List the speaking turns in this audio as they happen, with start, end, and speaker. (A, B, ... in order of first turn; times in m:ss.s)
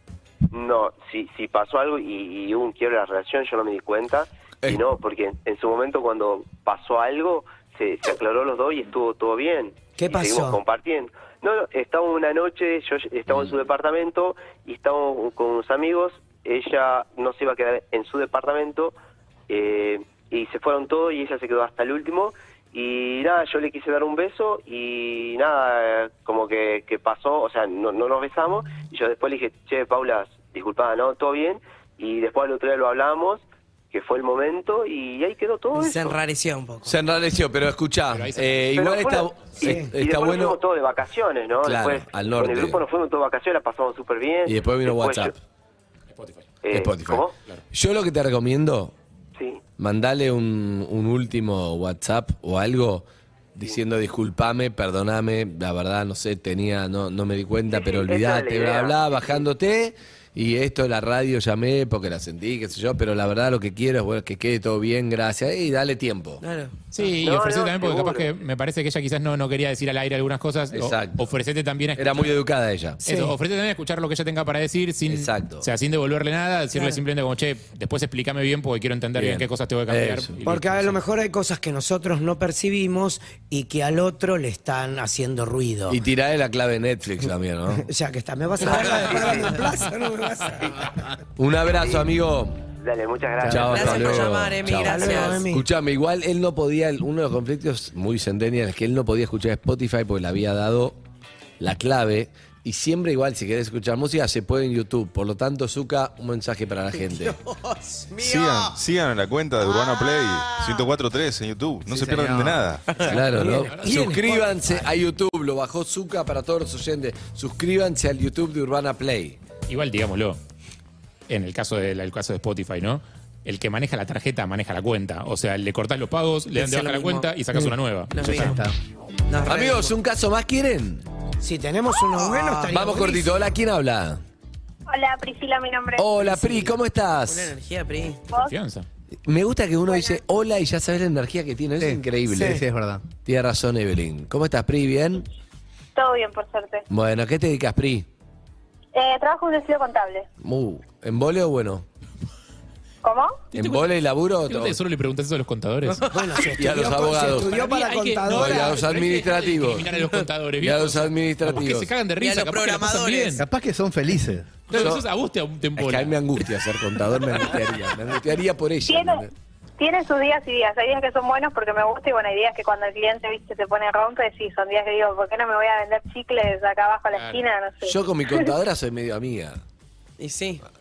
0:00.5-0:19.0 A
0:10.0-0:10.6 B
0:19.5-0:36.2 A
0:35.8-0:37.0 C
0:36.8-0:40.6 D
0:38.1-0:38.7 E
0:38.7-0:45.3 A
0:39.6-0:40.0 B
0:41.6-0:42.8 D
0:44.5-0:45.4 D
0:46.1-0:46.5 E
0:46.6-0:47.4 A
0:46.7-0:49.0 D
0:49.4-0:49.6 A
0:49.8-1:06.4 D
0:57.7-0:59.4 A
1:06.4-1:06.7 C
1:06.9-1:12.4 E
1:07.0-1:08.4 A
1:10.7-1:11.3 D
1:12.0-1:13.0 D
1:13.0-1:21.0 E
1:13.0-1:13.4 B
1:15.1-1:15.7 D
1:19.1-1:20.4 D
1:20.4-1:26.0 B
1:25.9-1:27.9 D
1:27.7-1:30.8 B
1:28.9-1:29.6 A
1:31.4-1:32.6 D
1:32.8-1:34.3 A
1:33.4-1:33.8 F
1:33.4-1:41.0 D
1:33.6-1:35.5 C
1:34.8-1:35.7 B
1:41.6-1:47.4 D
1:48.0-1:48.6 C
1:48.2-1:52.9 G
1:51.9-1:52.8 F
1:53.0-1:59.4 D
1:53.3-1:54.8 B
1:53.4-1:54.0 E
1:59.7-2:00.4 E
2:01.3-2:08.6 E
2:06.6-2:07.3 C
2:08.1-2:08.6 C
2:08.2-2:08.8 F
2:09.3-2:10.0 C
2:09.4-2:11.0 D
2:11.4-2:13.3 B
2:12.1-2:12.8 C
2:12.7-2:14.2 D
2:14.9-2:16.1 H
2:16.0-2:17.5 D
2:16.2-2:16.8 B
2:17.3-2:18.2 C
2:18.4-2:18.9 E
2:19.3-2:22.6 D
2:19.9-2:20.2 H
2:21.8-2:23.0 F
2:22.3-2:22.6 B
2:23.2-2:25.3 D
2:26.0-2:26.8 H
2:26.9-2:28.1 D
2:28.9-2:30.3 H
2:30.4-2:31.9 D
2:33.0-2:33.4 H
2:33.5-2:33.9 E
2:33.5-2:34.8 D
2:34.4-2:36.1 E
2:36.0-2:36.4 C
2:36.1-2:38.8 B
2:36.5-2:37.5 D
2:37.3-2:43.4 E
2:38.3-2:39.9 D
2:40.6-2:41.9 D
2:42.2-2:43.4 C
2:43.4-2:44.6 F
2:44.7-2:46.2 E
2:44.7-2:45.1 D
2:45.8-2:49.3 D
2:48.9-2:49.2 H
2:49.8-2:58.5 H
2:57.1-2:57.4 E
2:57.8-2:59.6 D
3:00.2-3:00.6 C